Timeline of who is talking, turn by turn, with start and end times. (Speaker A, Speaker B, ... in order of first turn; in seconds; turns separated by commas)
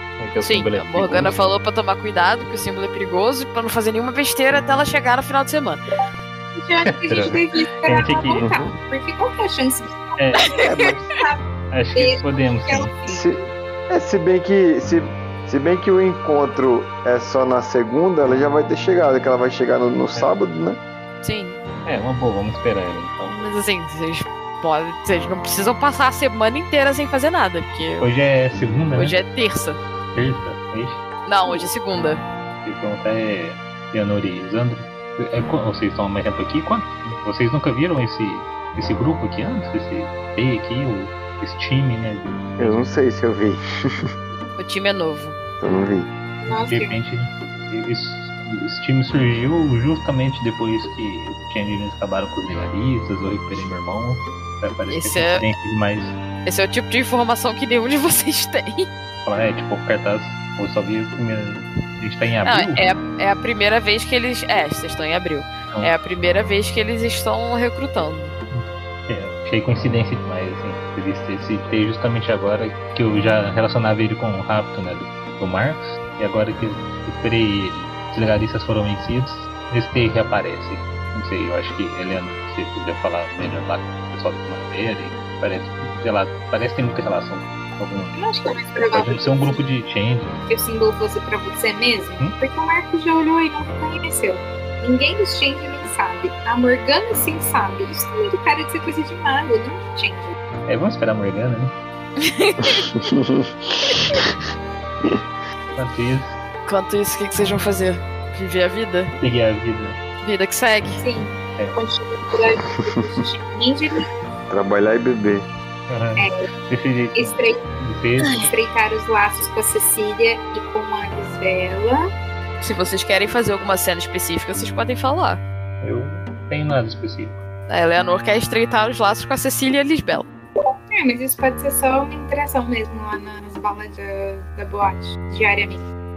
Speaker A: 0.2-1.4, Speaker B: 0.4-5.8, Speaker C: 6.5-10.2, Speaker A: 6.9-8.5, Speaker D: 8.4-8.7, Speaker A: 10.2-10.5, Speaker D: 10.6-11.1, Speaker C: 11.1-13.3, Speaker A: 11.7-12.9, Speaker D: 13.1-20.8, Speaker B: 21.2-21.6, Speaker A: 21.8-23.4, Speaker B: 23.3-28.1, Speaker A: 28.0-29.2, Speaker B: 28.9-29.8, Speaker A: 30.1-31.0, Speaker B: 31.2-32.2, Speaker A: 32.6-42.9, Speaker D: 42.6-43.6, Speaker B: 44.6-45.4, Speaker D: 45.6-46.1, Speaker C: 46.4-47.0, Speaker A: 46.5-56.2, Speaker B: 54.9-55.4, Speaker B: 56.4-58.9, Speaker A: 59.2-62.9, Speaker B: 62.5-68.4, Speaker A: 68.5-88.2, Speaker C: 88.2-89.6, Speaker A: 88.8-90.4, Speaker C: 90.4-100.3, Speaker A: 100.7-101.7, Speaker B: 102.2-103.0, Speaker D: 103.0-104.3, Speaker A: 105.7-106.3, Speaker B: 106.7-109.1, Speaker A: 109.2-110.0, Speaker B: 110.2-111.0, Speaker C: 111.0-114.1, Speaker D: 114.5-115.5, Speaker A: 115.9-118.5, Speaker C: 117.1-117.6, Speaker C: 118.3-122.0, Speaker B: 122.6-125.4, Speaker A: 125.8-127.4, Speaker B: 127.7-130.3, Speaker C: 130.9-135.9